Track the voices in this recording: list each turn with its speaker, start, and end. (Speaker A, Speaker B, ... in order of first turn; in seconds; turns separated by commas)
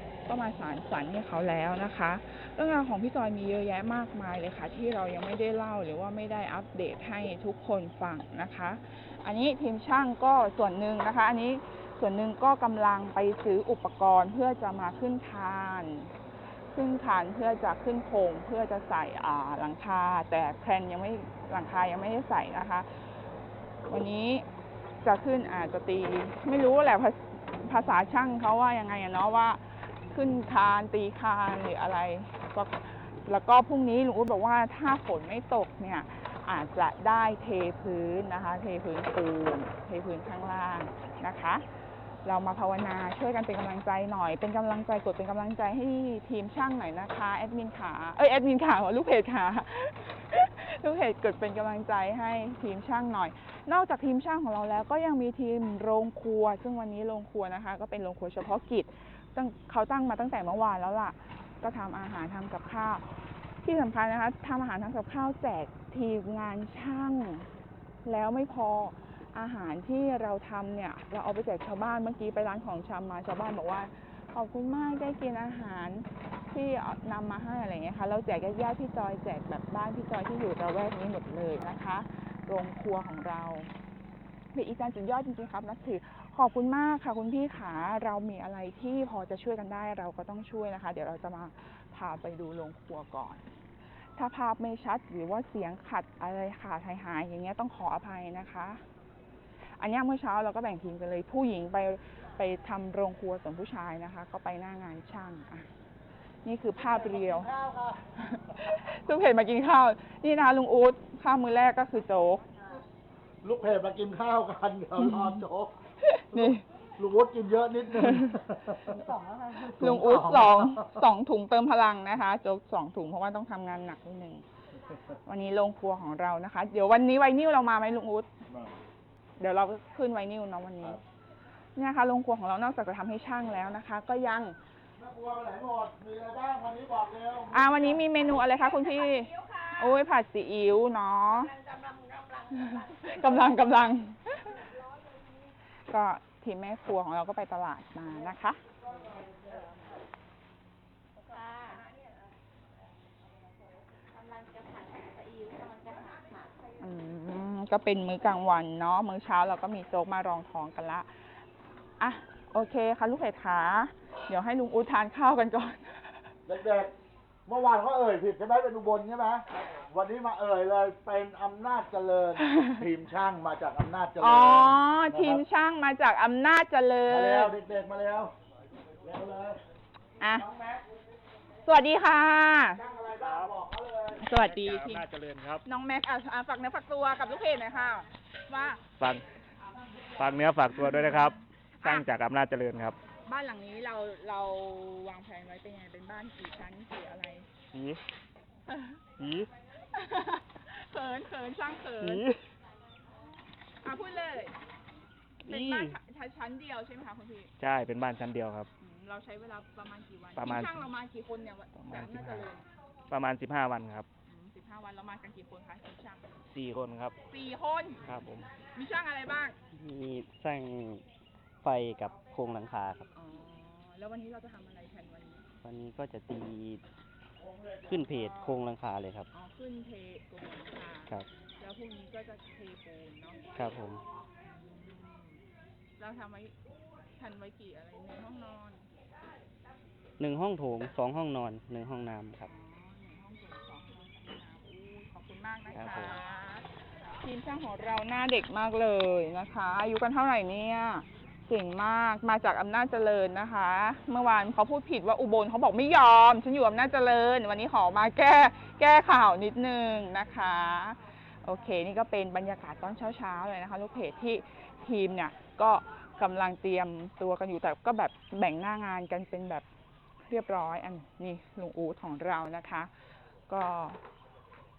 Speaker A: 0.2-16.1, Speaker A: 16.7-23.1, Speaker A: 23.9-24.4, Speaker A: 25.0-41.6, Speaker A: 42.2-67.5, Speaker A: 68.0-83.7, Speaker A: 84.5-93.5, Speaker A: 94.0-98.8, Speaker A: 99.8-105.7, Speaker A: 106.4-107.5, Speaker B: 107.2-107.9, Speaker A: 108.1-112.5, Speaker B: 113.4-115.7, Speaker A: 115.0-115.4, Speaker A: 116.0-116.6, Speaker B: 116.3-121.0, Speaker A: 119.6-124.4, Speaker A: 125.2-128.3, Speaker A: 129.4-131.0, Speaker A: 131.8-134.6, Speaker B: 135.0-137.9, Speaker A: 137.5-141.6, Speaker C: 141.7-142.2, Speaker A: 142.5-144.7, Speaker A: 145.9-148.6, Speaker C: 154.2-156.4, Speaker A: 156.8-161.4, Speaker A: 162.0-166.3, Speaker B: 166.5-166.9, Speaker B: 167.4-175.4, Speaker A: 174.2-177.5, Speaker B: 177.1-178.3, Speaker B: 179.0-179.6, Speaker A: 180.2-180.5, Speaker A: 181.6-182.8, Speaker C: 183.1-183.6, Speaker A: 184.1-185.0, Speaker C: 184.3-185.6, Speaker A: 185.6-188.8, Speaker C: 189.0-189.2, Speaker C: 190.2-193.0, Speaker A: 190.7-192.1, Speaker A: 193.2-197.5, Speaker C: 197.7-198.0, Speaker A: 198.7-199.0, Speaker C: 199.2-199.5, Speaker A: 199.9-202.2, Speaker C: 202.0-202.4, Speaker A: 203.8-204.6, Speaker A: 205.4-207.5, Speaker C: 205.5-206.0, Speaker C: 207.6-208.7, Speaker A: 208.8-212.7, Speaker C: 210.4-210.8, Speaker C: 211.8-212.5, Speaker C: 213.1-214.1, Speaker A: 214.2-216.3, Speaker C: 216.5-217.1, Speaker A: 217.2-219.6, Speaker C: 218.0-218.5, Speaker D: 219.7-221.0, Speaker D: 221.6-223.1, Speaker A: 223.1-225.5, Speaker D: 225.6-226.8, Speaker D: 227.8-229.3, Speaker A: 229.3-233.4, Speaker D: 233.5-234.0, Speaker A: 234.6-235.4, Speaker A: 236.0-236.6, Speaker A: 237.1-238.9, Speaker D: 240.2-242.5, Speaker A: 242.4-269.6, Speaker D: 245.7-246.2, Speaker A: 270.2-272.9, Speaker A: 273.5-274.0